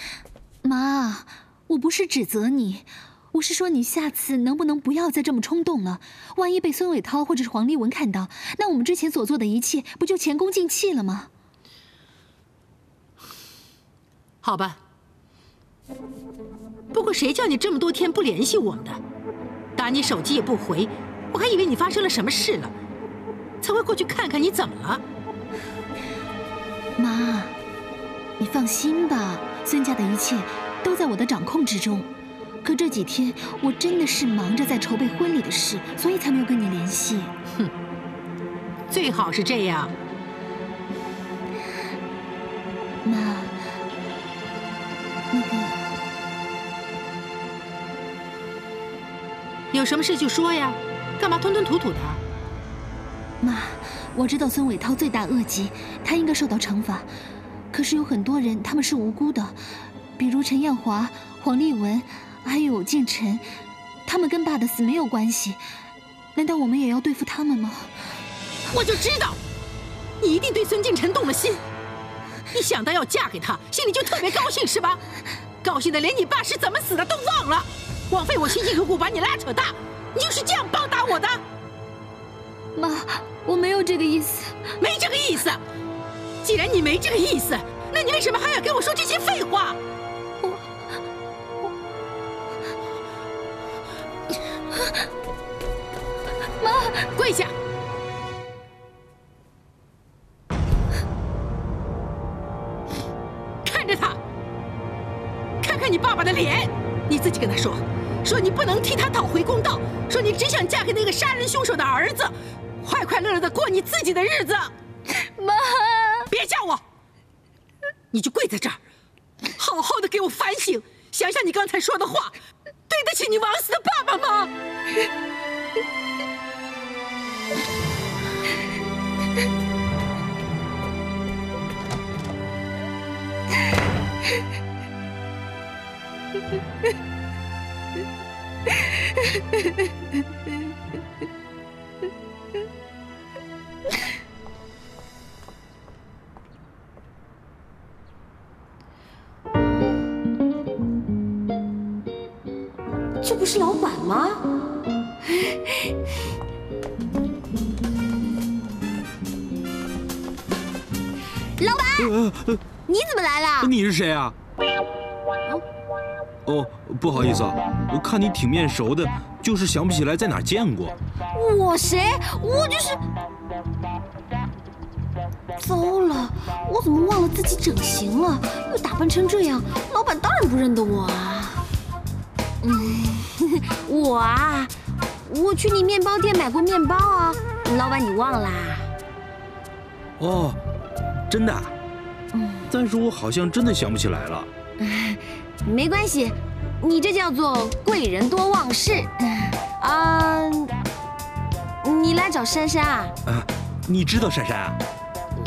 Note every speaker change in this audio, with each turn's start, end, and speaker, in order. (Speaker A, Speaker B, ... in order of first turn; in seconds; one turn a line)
Speaker A: 0.6-11.3
Speaker B: 14.4-14.8
Speaker B: 16.9-19.0
Speaker B: 19.8-22.7
Speaker B: 23.6-25.0
Speaker A: 27.0-27.6
Speaker A: 28.4-32.1
Speaker A: 32.6-37.3
Speaker B: 38.9-39.9
Speaker A: 43.0-43.6
Speaker A: 45.3-45.8
Speaker B: 49.7-52.2
Speaker A: 53.4-57.1
Speaker A: 57.7-59.6
Speaker A: 60.2-63.5
Speaker A: 64.0-65.6
Speaker A: 66.3-67.9
Speaker B: 68.7-69.4
Speaker B: 70.2-71.6
Speaker B: 72.5-75.0
Speaker B: 75.6-81.4
Speaker A: 82.8-84.6
Speaker B: 84.8-85.6
Speaker B: 86.4-89.8
Speaker B: 96.9-97.5
Speaker B: 103.6-104.2
Speaker B: 105.6-114.7
Speaker B: 116.3-116.8
Speaker B: 118.1-118.8
Speaker B: 119.6-122.3
Speaker B: 122.9-124.5
Speaker C: 153.2-154.4
Speaker C: 155.3-155.6
Speaker D: 162.0-162.6
Speaker C: 162.9-163.7
Speaker D: 163.6-164.3
Speaker D: 166.4-170.9
Speaker C: 171.3-173.0
Speaker C: 175.6-181.6
Speaker C: 182.6-184.7
Speaker C: 185.2-188.9
Speaker D: 190.2-190.6
Speaker D: 191.3-191.7
Speaker C: 192.3-192.6
Speaker D: 192.7-194.5
Speaker C: 194.8-199.1
Speaker C: 199.7-200.7
Speaker C: 201.8-203.1
Speaker D: 203.3-204.8